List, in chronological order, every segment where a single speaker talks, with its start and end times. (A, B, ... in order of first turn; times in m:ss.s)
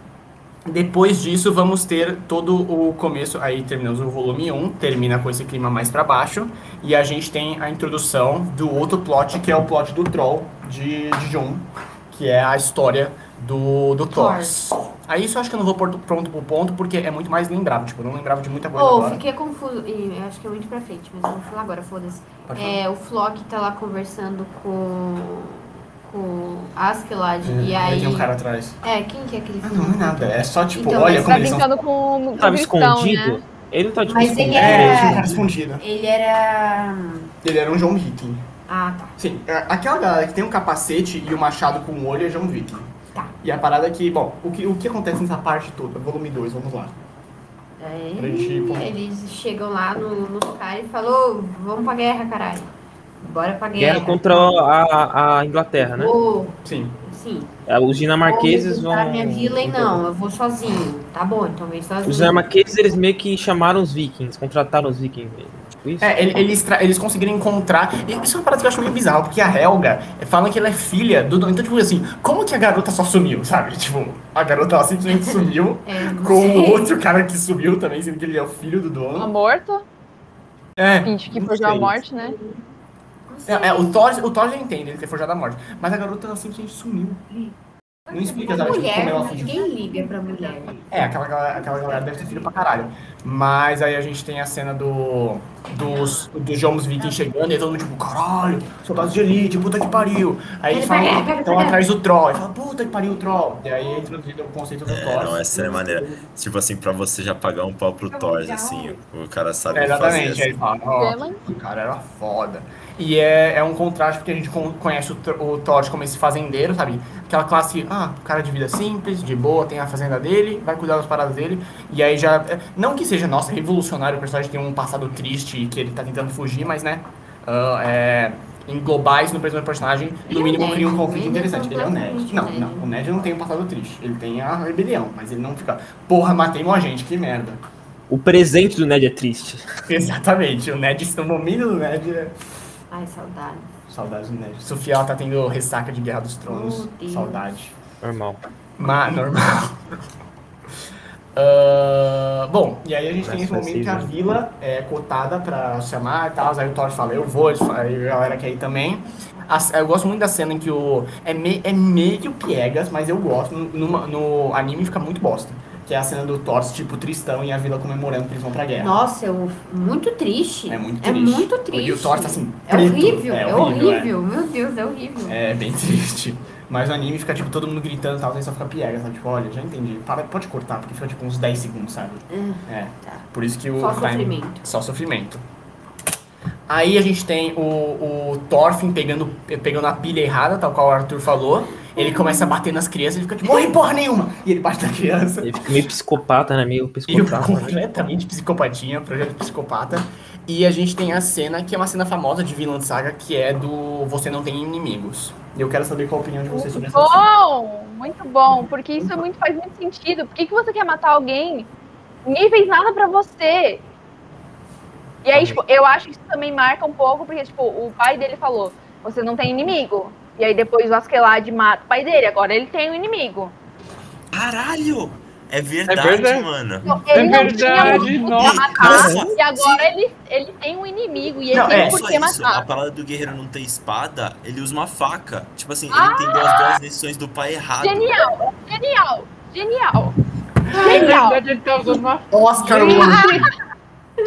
0:00.7-0:19.2 A
0:14.1-0:14.6 B
0:18.8-0:28.3 B
0:22.5-0:22.8 A
0:27.4-0:28.8 A
0:28.8-0:31.5 B
0:29.6-0:31.7 A
0:31.2-0:33.4 C
0:32.4-0:35.2 D
0:34.1-0:37.3 B
0:34.5-0:35.8 A
0:37.4-0:38.5 A
0:38.7-0:39.2 B
0:39.2-0:47.0 A
0:47.8-0:54.6 B
0:48.2-0:48.9 A
0:53.8-0:56.2 D
0:55.8-0:57.6 B
0:56.6-0:57.0 A
0:57.7-1:00.0 D
0:58.2-1:02.4 B
1:02.0-1:06.2 D
1:06.0-1:19.3 A
1:15.9-1:16.9 B
1:19.2-1:19.8 C
1:20.8-1:22.0 A
1:21.0-1:22.4 C
1:23.3-1:24.0 B
1:23.5-1:27.3 A
1:28.1-1:29.7 A
1:28.1-1:30.9 B
1:30.9-1:46.2 A
1:35.9-1:36.3 B
1:40.7-1:41.9 B
1:44.9-1:50.6 E
1:48.1-1:49.0 B
1:49.7-2:17.6 A
1:51.0-1:51.4 C
2:10.3-2:12.9 B
2:18.1-2:19.6 D
2:19.9-2:22.4 A
2:22.9-2:23.7 B
2:23.9-2:27.8 A
2:26.5-2:27.4 B
2:28.0-2:28.4 D
2:28.8-2:29.8 A
2:31.4-2:49.0 A
2:33.2-2:34.1 D
2:48.8-2:55.4 B
2:50.7-2:54.1 A
2:55.3-3:05.4 A
3:02.3-3:03.2 B
3:03.8-3:04.6 B
3:06.7-3:15.8 A
3:12.0-3:12.5 B
3:15.4-3:17.8 D
3:17.1-3:27.2 A
3:26.5-3:31.7 C
3:32.2-3:33.8 C
3:35.2-3:43.6 C
3:35.3-3:35.6 D
3:44.3-3:49.9 E
3:45.9-3:46.5 F
3:46.8-3:52.7 C
3:47.1-3:49.2 F
3:51.5-3:52.1 A
3:51.6-3:58.1 E
3:55.9-3:56.8 C
3:57.8-4:00.2 C
4:00.8-4:01.4 C
4:00.8-4:03.2 F
4:00.8-4:01.1 B
4:02.3-4:03.5 A
4:02.7-4:03.4 B
4:02.7-4:03.5 C